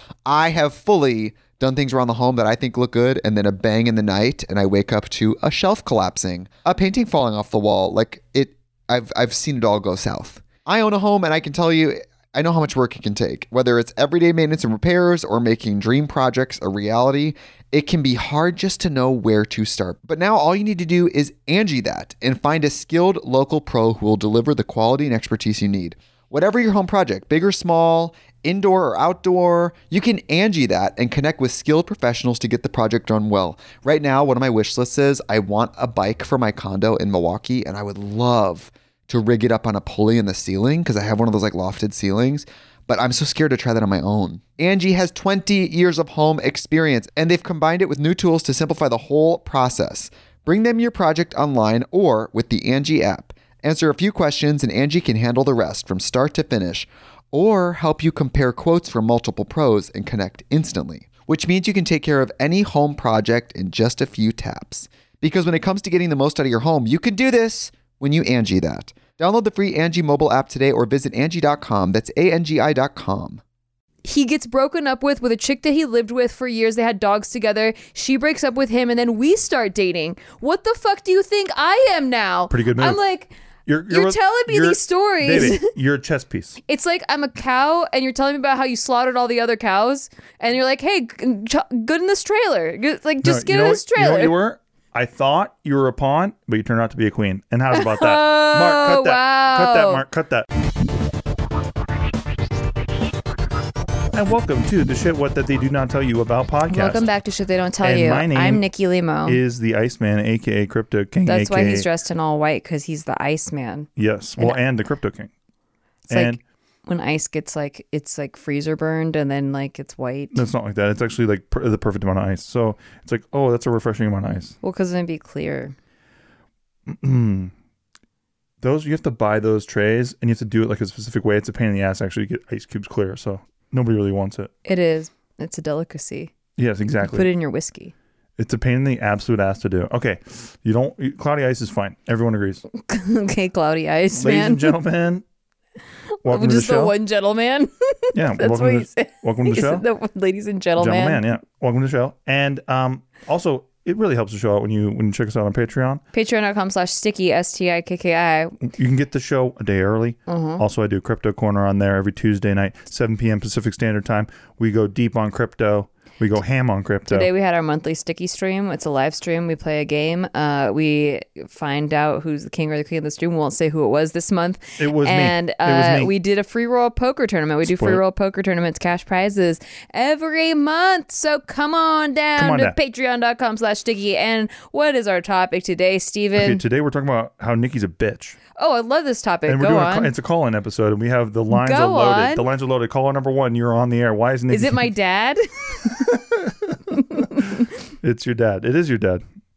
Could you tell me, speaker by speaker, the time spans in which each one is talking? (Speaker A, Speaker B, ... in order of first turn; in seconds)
Speaker A: 0.2-73.4
Speaker B: 74.0-83.3, 83.9-85.7, 86.7-94.3, 97.7-100.0, 106.7-109.4, 111.2-114.6, 116.1-120.4, 124.6-125.7, 134.7-136.3, 137.0-137.9, 142.7-144.7, 146.1-151.2, 156.1-158.6, 160.3-160.6, 167.1-186.6, 188.6-190.1, 191.5-192.4, 194.5-196.1, 196.9-197.5
Speaker C: 82.5-83.0, 83.7-86.6, 93.2-100.5, 104.1-107.0, 107.8-108.6, 109.2-111.9, 114.0-115.3, 116.1-116.4, 120.3-124.5, 126.9-127.5, 128.6-134.5, 136.6-137.3, 138.4-142.6, 144.1-145.2, 146.2-146.9, 148.1-149.8, 150.8-156.0, 158.6-167.3, 174.8-176.1, 177.7-178.0, 182.4-182.8, 186.3-188.4, 189.5-194.9, 195.8-199.2